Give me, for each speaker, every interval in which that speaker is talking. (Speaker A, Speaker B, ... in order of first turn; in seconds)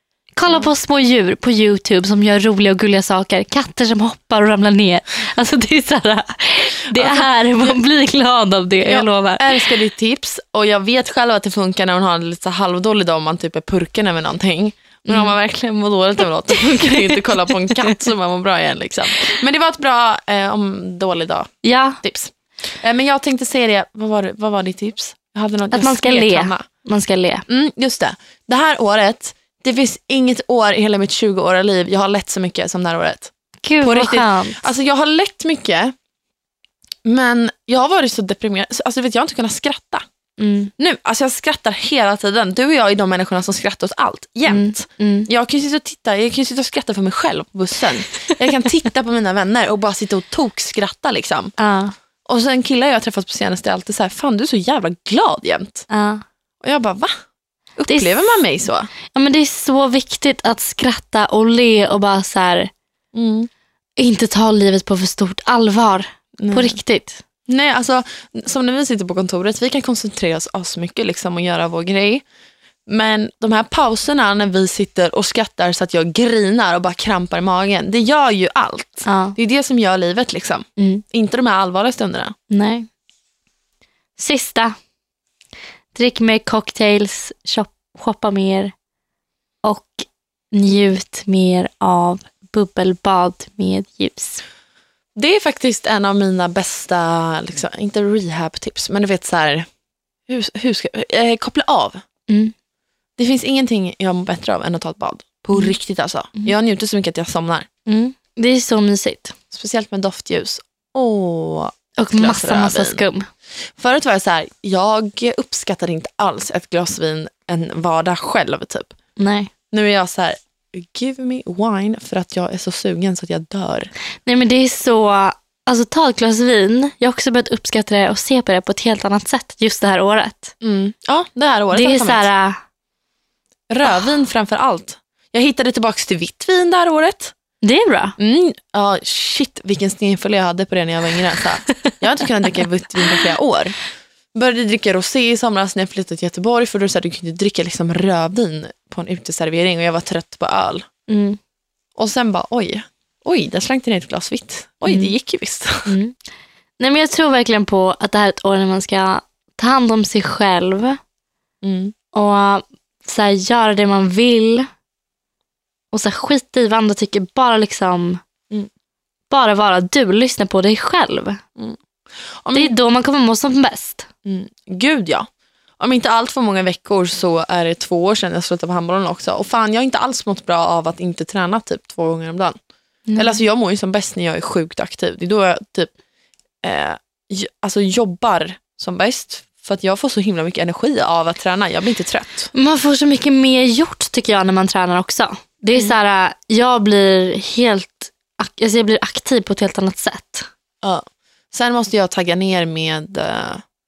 Speaker A: 0.3-9.7, 21.6-22.0, 25.7-27.4, 33.6-34.6, 40.4-40.7, 44.5-45.3, 51.6-51.9, 55.9-56.2, 57.9-58.2, 59.1-62.7, 64.0-67.2, 79.1-79.4, 80.8-81.0, 82.5-82.9, 84.2-84.8, 85.9-88.7, 89.6-94.4, 102.3-102.5, 107.9-109.3, 112.0-113.3, 119.2-119.5, 124.2-130.5, 131.7-132.6, 137.6-138.2, 151.1-151.4, 154.9-155.1, 155.9-156.2, 156.8-161.0, 162.1-164.7, 165.9-168.2, 169.3-171.4, 172.5-174.1, 183.1-183.4, 192.5-200.5
Speaker B: 7.0-7.7, 8.9-21.5, 22.0-26.6, 27.5-33.3, 33.8-35.9, 37.0-40.0, 40.8-51.5, 52.2-55.9, 56.6-57.1, 57.8-58.9, 63.1-63.5, 66.4-66.8, 67.5-72.2, 72.9-82.3, 95.2-99.7, 100.3-102.0, 103.2-107.7, 109.5-113.0, 113.8-118.9, 119.7-123.9, 130.6-132.3, 133.7-137.3, 138.2-143.8, 144.3-150.9, 152.0-155.9, 161.6-161.9, 172.4-172.7, 174.2-175.3, 175.8-182.6, 183.2-185.9, 186.6-192.5, 200.8-203.6